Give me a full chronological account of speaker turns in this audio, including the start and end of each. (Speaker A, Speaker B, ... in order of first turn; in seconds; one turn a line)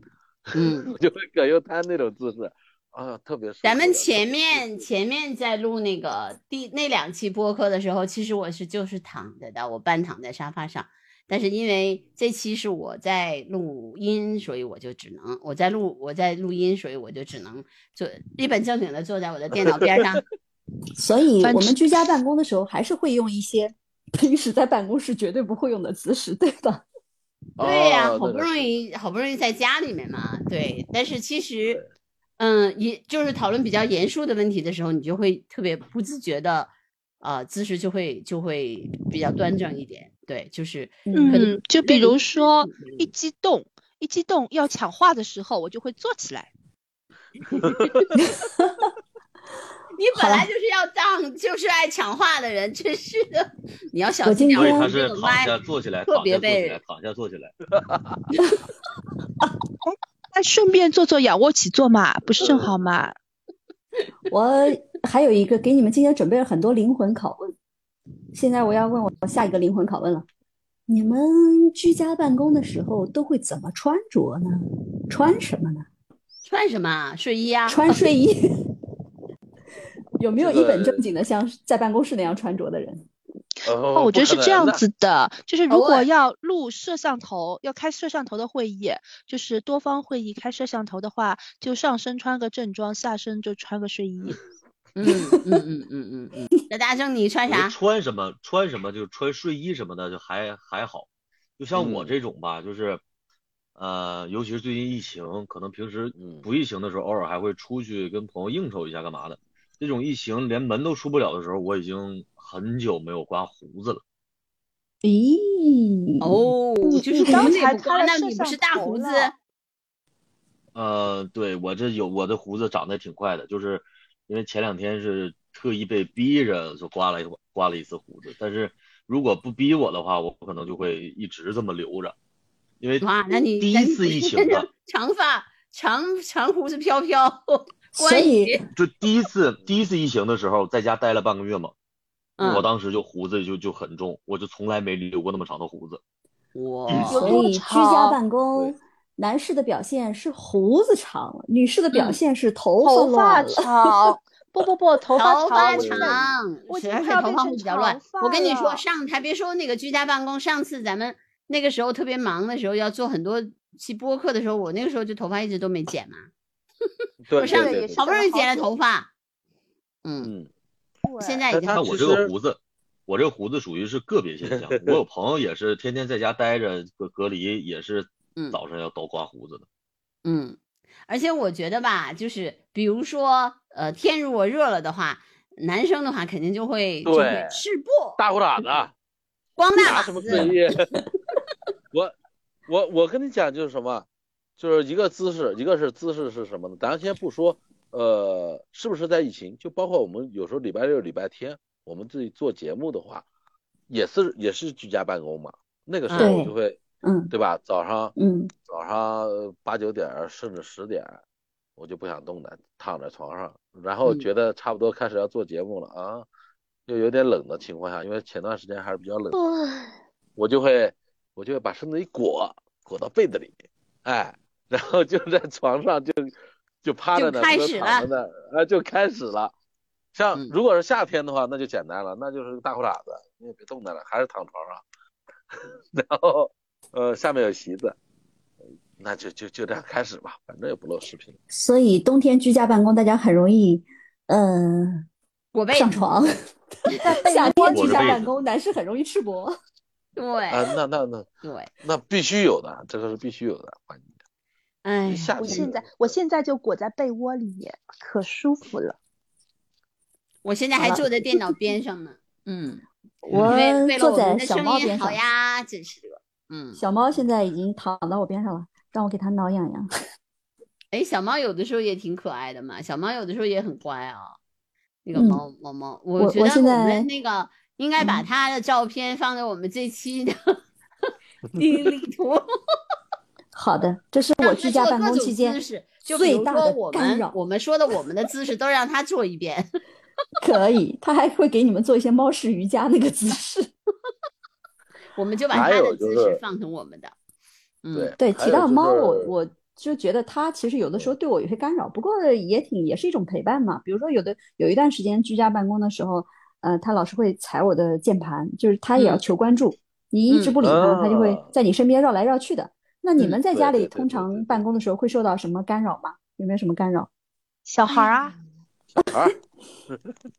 Speaker A: 0.5-4.8
Speaker B: 0.6-0.9
Speaker B: 3.6-20.2
Speaker C: 21.0-26.8
Speaker D: 21.4-21.8
Speaker A: 27.6-28.6
Speaker B: 27.6-31.8
Speaker B: 32.4-36.7
Speaker B: 37.2-43.1
Speaker C: 41.1-41.5
Speaker D: 41.1-46.5
Speaker A: 47.6-48.0
Speaker C: 48.2-48.7
Speaker B: 50.0-55.6
Speaker C: 50.2-50.5
Speaker C: 54.2-54.9
Speaker E: 54.5-57.5
Speaker B: 56.1-56.8
Speaker A: 57.8-58.2
Speaker D: 59.8-63.1
Speaker A: 62.4-62.7
Speaker C: 64.3-67.5
Speaker C: 68.3-70.2
Speaker C: 70.9-75.9
Speaker B: 76.5-78.0
Speaker C: 77.7-78.5
Speaker C: 80.2-83.1
Speaker A: 80.4-81.0
Speaker A: 83.7-84.8
Speaker D: 83.9-94.4
Speaker B: 85.7-86.1
Speaker B: 95.0-97.8
Speaker E: 97.5-101.1
Speaker E: 101.6-103.0
Speaker A: 101.8-102.1
Speaker E: 103.8-114.0
Speaker A: 106.2-106.5
Speaker C: 115.0-116.5
Speaker B: 116.2-119.3
Speaker D: 116.9-119.3
Speaker C: 117.2-117.6
Speaker E: 120.8-132.2
Speaker E: 132.8-134.7
Speaker B: 133.0-138.7
Speaker C: 137.9-138.6
Speaker E: 138.8-141.7
Speaker B: 142.4-142.7
Speaker E: 142.4-146.0
Speaker B: 146.6-147.4
Speaker E: 146.9-147.2
Speaker D: 147.1-148.2
Speaker C: 147.1-153.7
Speaker B: 151.9-152.2
Speaker D: 152.8-158.8
Speaker B: 155.2-166.3
Speaker A: 155.6-156.3
Speaker A: 167.2-168.0
Speaker D: 167.4-168.7
Speaker B: 167.4-169.1
Speaker B: 170.1-170.3
Speaker A: 170.2-170.5
Speaker D: 171.1-171.5
Speaker B: 171.2-171.8
Speaker A: 171.5-172.3
Speaker E: 171.7-179.6
Speaker B: 180.2-188.2
Speaker A: 187.1-187.6
Speaker A: 188.2-188.9
Speaker B: 189.6-190.5
Speaker A: 189.8-191.0
Speaker A: 192.7-194.1
Speaker A: 194.6-203.2
Speaker A: 203.9-206.8
Speaker B: 206.1-206.4
Speaker C: 206.2-207.3
Speaker A: 207.3-208.2
Speaker C: 208.2-208.5
Speaker A: 208.7-211.2
Speaker A: 211.8-216.3
Speaker A: 216.9-219.4
Speaker A: 220.4-223.5
Speaker A: 224.1-229.5
Speaker B: 227.2-228.1
Speaker A: 230.1-234.8
Speaker A: 235.9-238.0
Speaker A: 239.0-241.4
Speaker C: 241.5-245.1
Speaker B: 245.5-246.0
Speaker C: 245.7-246.3
Speaker C: 247.0-249.6
Speaker D: 247.0-248.2
Speaker E: 247.7-248.3
Speaker B: 250.2-250.7
Speaker A: 250.5-251.3
Speaker B: 251.4-251.7
Speaker A: 251.8-254.1
Speaker B: 254.8-255.3
Speaker A: 255.1-256.1
Speaker D: 255.4-259.0
Speaker B: 260.4-262.8
Speaker C: 260.8-261.1
Speaker C: 263.2-265.2
Speaker B: 263.4-266.8
Speaker C: 266.8-269.9
Speaker B: 270.9-274.4
Speaker B: 275.1-280.6
Speaker C: 275.1-275.4
Speaker C: 276.2-277.1
Speaker C: 278.0-278.2
Speaker B: 281.5-282.4
Speaker C: 283.5-287.4
Speaker B: 284.4-289.7
Speaker C: 290.4-293.7
Speaker B: 295.1-297.1
Speaker A: 295.5-296.4
Speaker B: 297.8-298.1
Speaker A: 297.9-299.3
Speaker C: 298.2-317.1
Speaker B: 309.0-309.2
Speaker B: 310.3-310.6
Speaker A: 310.6-311.5
Speaker A: 313.5-314.8
Speaker D: 317.7-318.4
Speaker A: 318.9-319.4